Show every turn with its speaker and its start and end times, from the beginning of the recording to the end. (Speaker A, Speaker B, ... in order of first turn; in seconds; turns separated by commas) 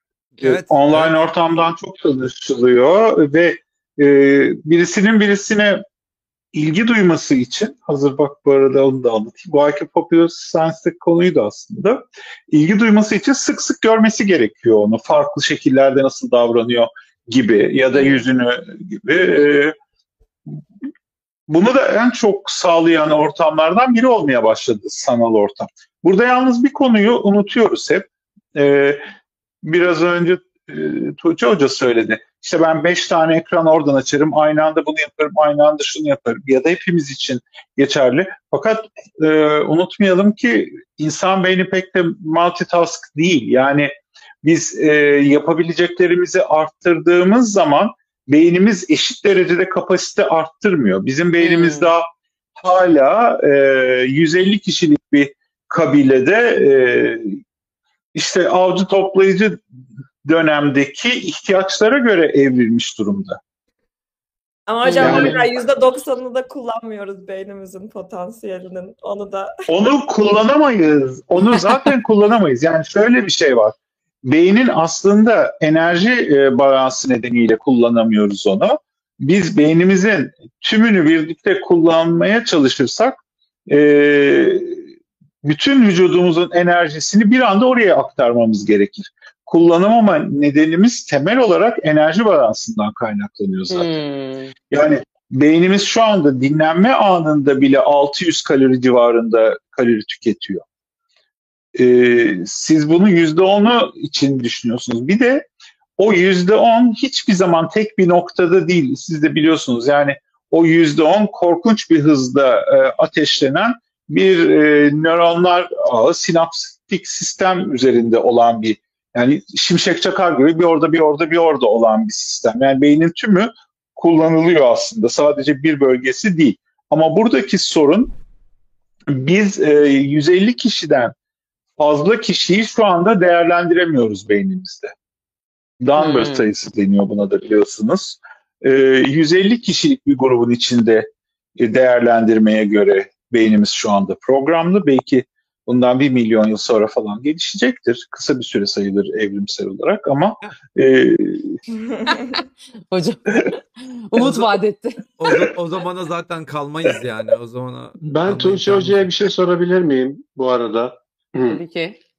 Speaker A: 0.3-1.1, Speaker B: 0.4-5.8, Speaker B: 6.5-19.7, Speaker C: 17.9-18.2, Speaker B: 21.5-29.0, Speaker B: 29.6-43.9, Speaker B: 44.4-52.0, Speaker C: 51.4-51.9, Speaker B: 52.6-57.4, Speaker B: 58.1-59.6, Speaker B: 60.2-63.4, Speaker D: 64.7-69.5, Speaker C: 64.8-65.3, Speaker B: 65.0-65.4, Speaker E: 65.0-65.3, Speaker B: 69.7-84.8, Speaker B: 85.4-93.9, Speaker C: 93.7-94.5, Speaker B: 94.7-100.6, Speaker B: 101.7-105.5, Speaker B: 106.0-128.2, Speaker B: 129.1-131.1, Speaker B: 131.8-134.9, Speaker B: 135.8-141.1, Speaker C: 136.0-136.5, Speaker B: 141.6-151.6, Speaker D: 151.8-152.4, Speaker C: 152.9-155.0, Speaker A: 154.2-154.5, Speaker A: 155.2-159.1, Speaker E: 158.0-161.6, Speaker C: 161.5-162.0